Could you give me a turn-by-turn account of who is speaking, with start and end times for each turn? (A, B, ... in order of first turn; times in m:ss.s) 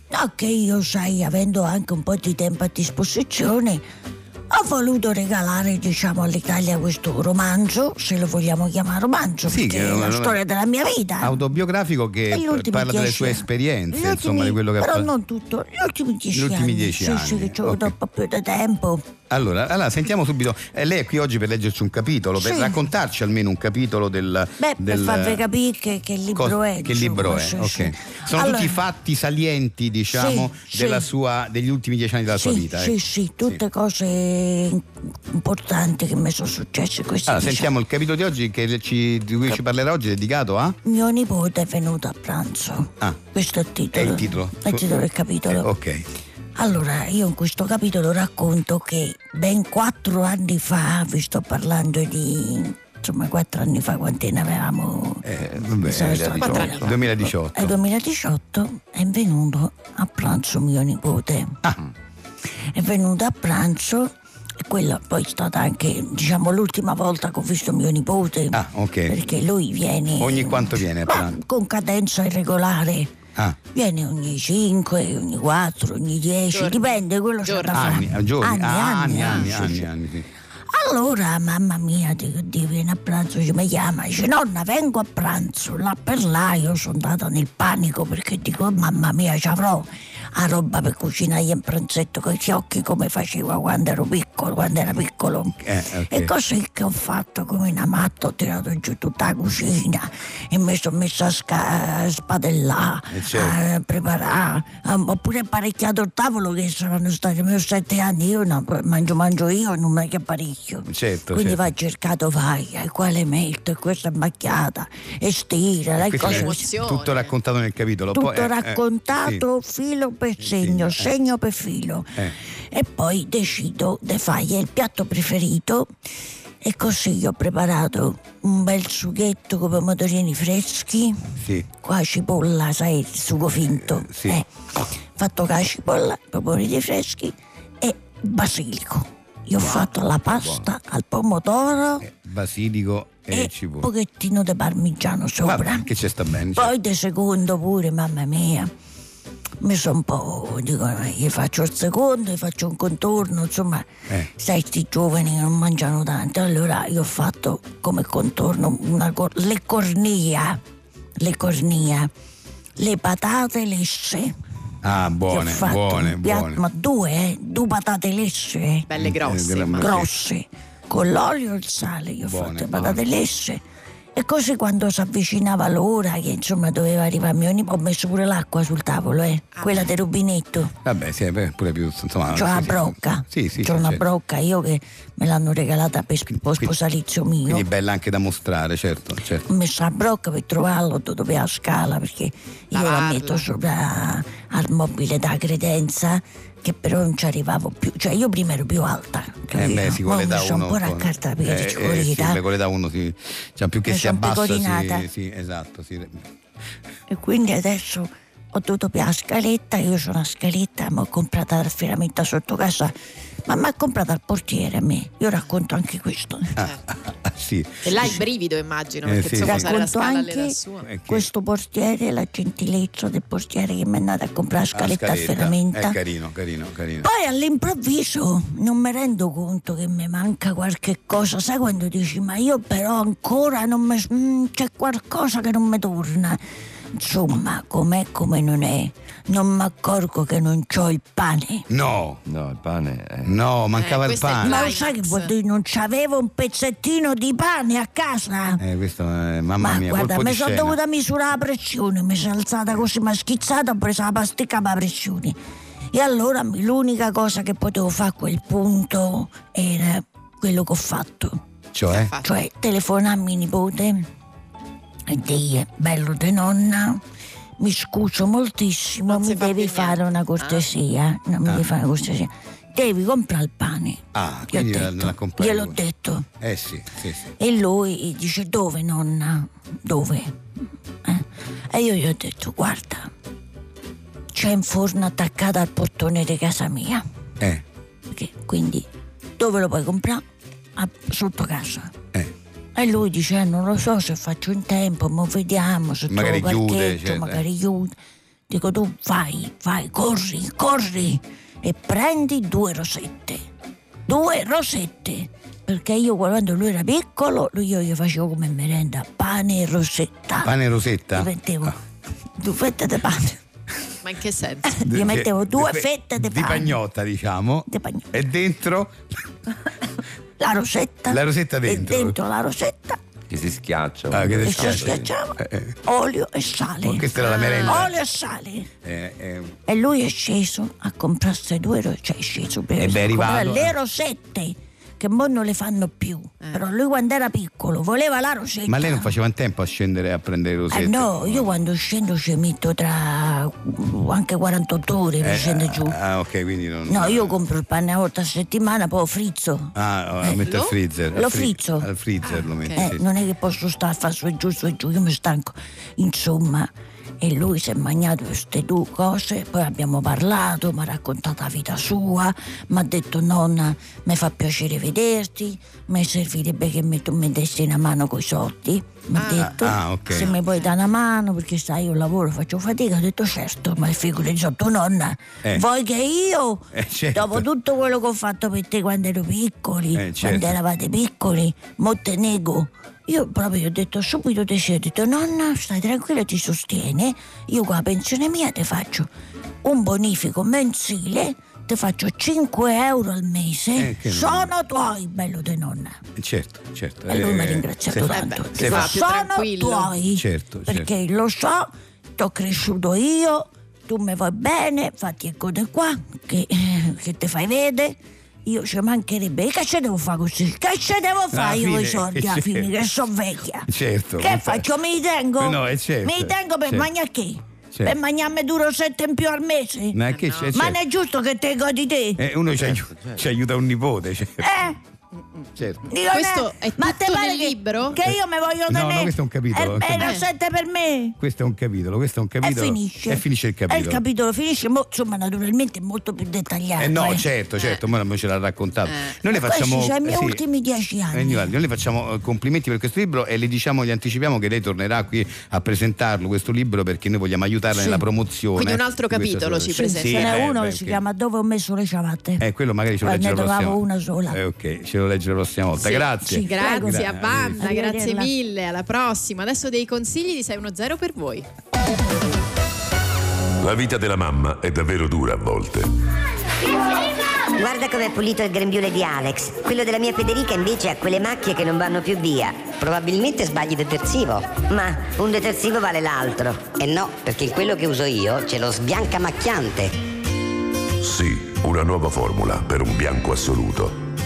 0:00.1-0:03.8 A
0:04.5-0:11.4 A
0:09.5-0:10.4 B
0:11.2-0:15.1 B
0:12.3-0:19.0 A
0:16.3-0:18.0 B
0:19.3-0:25.4 B
0:22.4-0:22.8 A
0:24.6-0:28.8 A
0:26.4-0:33.6 B
0:30.1-0:31.1 A
0:32.3-0:37.7 A
0:37.3-0:40.8 B
0:40.8-0:45.7 A
0:43.9-0:44.9 B
0:45.5-0:46.0 B
0:46.6-0:55.2 A
0:55.2-0:57.8 B
0:55.5-0:57.0 C
0:55.8-1:01.6 A
0:56.4-0:56.9 D
1:02.7-1:04.1 A
1:04.6-1:13.1 A
1:08.5-1:09.2 B
1:10.2-1:11.4 B
1:13.7-1:19.9 A
1:16.5-1:18.0 D
1:17.7-1:20.3 B
1:19.2-1:19.5 D
1:20.7-1:35.6 A
1:35.6-1:36.3 B
1:36.1-1:56.7 A
1:43.1-1:43.6 B
1:50.9-1:51.7 B
1:56.0-1:59.4 B
1:56.2-1:57.3 D
1:58.1-2:02.2 A
2:00.4-2:01.1 B
2:02.7-2:05.9 A
2:06.6-2:11.2 A
2:11.4-2:11.7 B
2:11.8-2:22.0 A
2:13.9-2:14.4 B
2:19.6-2:19.9 B
2:20.4-2:20.6 C
2:22.0-2:23.9 B
2:23.3-2:25.9 A
2:25.4-2:26.7 B
2:26.6-2:28.7 A
2:29.6-2:40.6 A
2:41.2-2:42.1 A
2:42.8-2:44.3 A
2:44.8-2:46.6 B
2:45.3-2:48.9 A
2:48.9-2:50.1 D
2:49.0-2:50.1 B
2:49.8-2:53.6 A
2:52.2-2:53.0 B
2:54.2-3:00.8 A
2:59.5-2:59.9 D
3:00.8-3:04.0 B
3:02.3-3:07.7 A
3:07.5-3:09.5 B
3:09.5-3:22.4 A
3:12.7-3:13.5 D
3:19.5-3:26.3 B
3:23.9-3:25.1 A
3:27.1-3:32.9 A
3:33.5-3:36.6 A
3:37.2-3:38.2 B
3:37.8-3:40.9 D
3:39.0-3:39.8 B
3:39.3-3:46.0 A
3:40.9-3:41.3 B
3:44.7-3:47.1 B
3:47.0-3:56.4 A
3:57.0-4:01.7 A
4:01.7-4:02.2 B
4:02.3-4:03.4 C
4:03.2-4:04.7 B
4:03.8-4:05.3 D
4:04.4-4:08.6 A
4:08.6-4:10.8 B
4:09.6-4:15.4 A
4:15.9-4:21.4 A
4:21.7-4:22.1 B
4:21.9-4:22.3 D
4:22.2-4:24.1 A
4:25.1-4:27.0 A
4:27.6-4:36.3 A
4:29.1-4:30.7 D
4:34.1-4:35.8 B
4:36.4-4:37.3 B
4:37.4-4:40.4 A
4:41.0-4:43.1 A
4:44.3-4:47.0 A
4:48.1-4:48.9 A
4:49.4-4:50.2 A
4:50.8-4:51.9 A
4:52.8-4:58.0 A
4:56.1-4:57.4 B
4:58.5-5:03.4 A
5:04.1-5:10.5 A
5:10.4-5:11.8 B
5:11.1-5:11.8 A
5:12.4-5:13.4 A
5:14.0-5:14.8 D
5:14.7-5:16.8 A
5:14.8-5:19.0 B
5:17.7-5:18.1 A
5:20.4-5:23.0 A
5:21.1-5:22.2 B
5:23.3-5:25.1 C
5:24.1-5:25.8 B
5:24.4-5:27.1 A
5:26.8-5:28.0 B
5:27.2-5:27.9 D
5:27.6-5:28.7 A
5:28.8-5:29.6 B
5:29.7-5:39.1 A
5:32.8-5:33.8 B
5:38.7-5:41.5 B
5:40.7-5:46.0 A
5:45.2-5:47.4 B
5:46.9-5:50.4 A
5:49.8-5:53.0 B
5:50.4-5:50.7 D
5:51.1-5:51.9 A
5:52.2-5:52.9 D
5:52.8-6:29.1 A
6:09.2-6:10.8 D
6:09.4-6:10.3 B
6:16.7-6:17.5 B
6:20.0-6:20.6 B
6:29.6-6:36.0 A
6:33.8-6:34.5 B
6:36.2-6:39.0 B
6:37.1-7:00.0 A
6:38.1-6:39.9 D
6:40.2-6:40.9 B
6:51.3-6:52.9 B
6:53.7-6:54.7 B
6:55.4-6:56.9 B
6:59.9-7:00.8 B
7:00.1-7:00.6 D
7:00.5-7:02.2 A
7:02.2-7:04.6 B
7:04.4-7:04.8 A
7:05.6-7:05.8 B
7:05.9-7:11.2 A
7:06.1-7:08.1 D
7:08.7-7:10.2 B
7:10.0-7:10.2 D
7:11.2-7:14.0 B
7:12.4-7:17.3 A
7:16.8-7:20.4 B
7:18.9-7:19.2 D
7:19.4-7:21.6 A
7:21.1-7:31.0 B
7:27.7-7:28.0 A
7:28.6-7:30.4 D
7:29.7-7:32.4 A
7:32.4-7:37.6 B
7:33.0-7:34.4 A
7:35.8-7:41.5 D
7:36.2-7:38.3 A
7:43.6-7:45.9 E
7:47.6-7:59.9 F
8:01.0-8:04.0 E